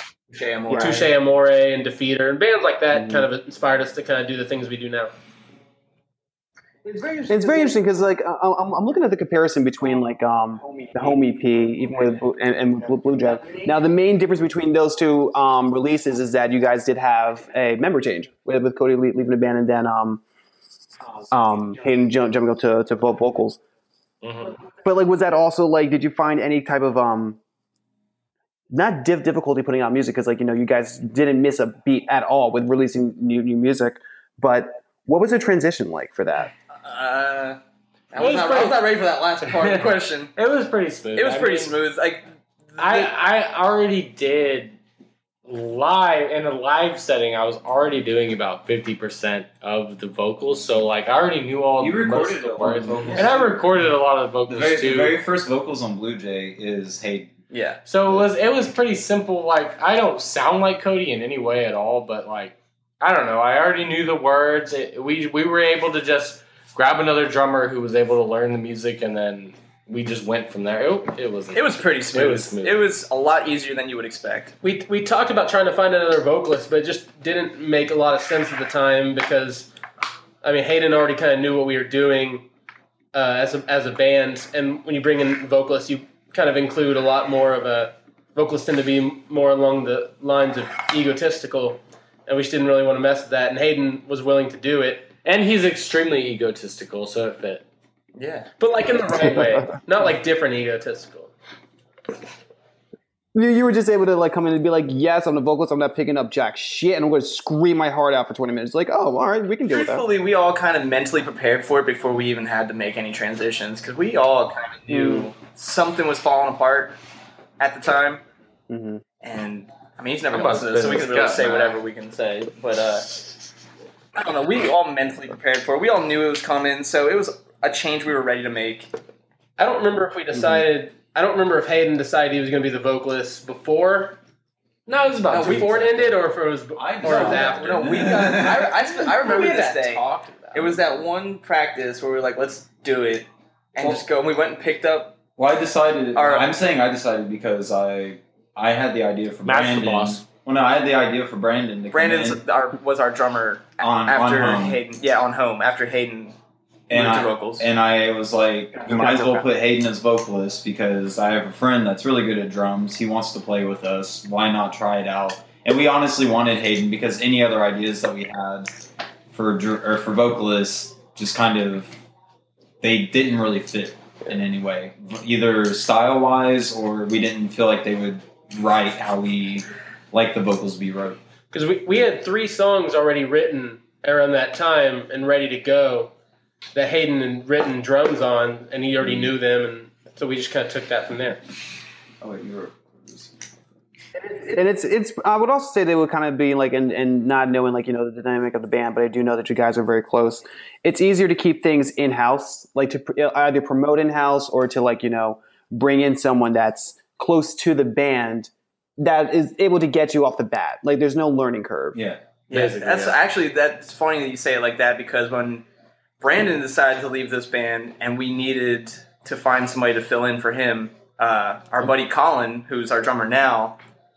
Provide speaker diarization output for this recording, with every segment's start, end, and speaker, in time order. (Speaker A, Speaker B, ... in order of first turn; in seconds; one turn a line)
Speaker A: 0.3-1.1
Speaker B: 0.7-1.0
Speaker C: 0.8-5.1
Speaker B: 2.9-3.3
Speaker B: 7.3-20.2
Speaker B: 21.3-23.6
Speaker D: 24.2-24.6
Speaker B: 24.8-27.4
Speaker B: 28.7-36.5
Speaker A: 36.8-37.6
Speaker A: 38.1-40.4
Speaker D: 38.2-38.8
Speaker D: 39.5-39.8
Speaker D: 40.4-41.8
Speaker A: 41.2-43.1
Speaker D: 42.8-44.8
Speaker D: 45.5-55.2
Speaker E: 51.8-53.6
Speaker E: 54.5-57.3
Speaker A: 57.5-57.8
Speaker D: 57.9-72.8
Speaker A: 71.5-74.5
Speaker C: 74.6-79.7
Speaker C: 80.4-82.5
Speaker C: 83.1-95.1
Speaker D: 95.2-97.7
Speaker A: 98.2-98.5
Speaker C: 98.6-101.3
Speaker B: 99.3-99.7
Speaker B: 103.3-110.1
Speaker A: 109.7-117.0
Speaker B: 114.9-115.3
Speaker A: 117.6-118.2
Speaker B: 118.7-119.0
Speaker A: 119.2-123.2
Speaker D: 120.3-121.8
Speaker A: 124.2-128.9
Speaker C: 129.6-134.2
Speaker C: 134.9-138.0
Speaker D: 134.9-135.8
Speaker A: 135.3-136.0
Speaker E: 136.8-138.7
Speaker A: 137.0-145.2
Speaker C: 139.4-140.6
Speaker E: 145.4-152.4
Speaker A: 146.1-146.6
Speaker D: 149.4-150.3
Speaker A: 151.9-156.4
Speaker E: 153.8-154.8
Speaker A: 156.9-157.7
Speaker E: 156.9-168.7
Speaker B: 158.8-159.5
Speaker E: 169.3-171.9
Speaker E: 172.8-181.2
Speaker C: 181.5-186.1
Speaker C: 186.8-191.4
Speaker E: 189.0-189.3
Speaker E: 192.2-193.3
Speaker B: 194.2-212.0
Speaker E: 211.9-212.2
Speaker A: 212.5-215.7
Speaker D: 212.5-213.2
Speaker A: 216.2-223.8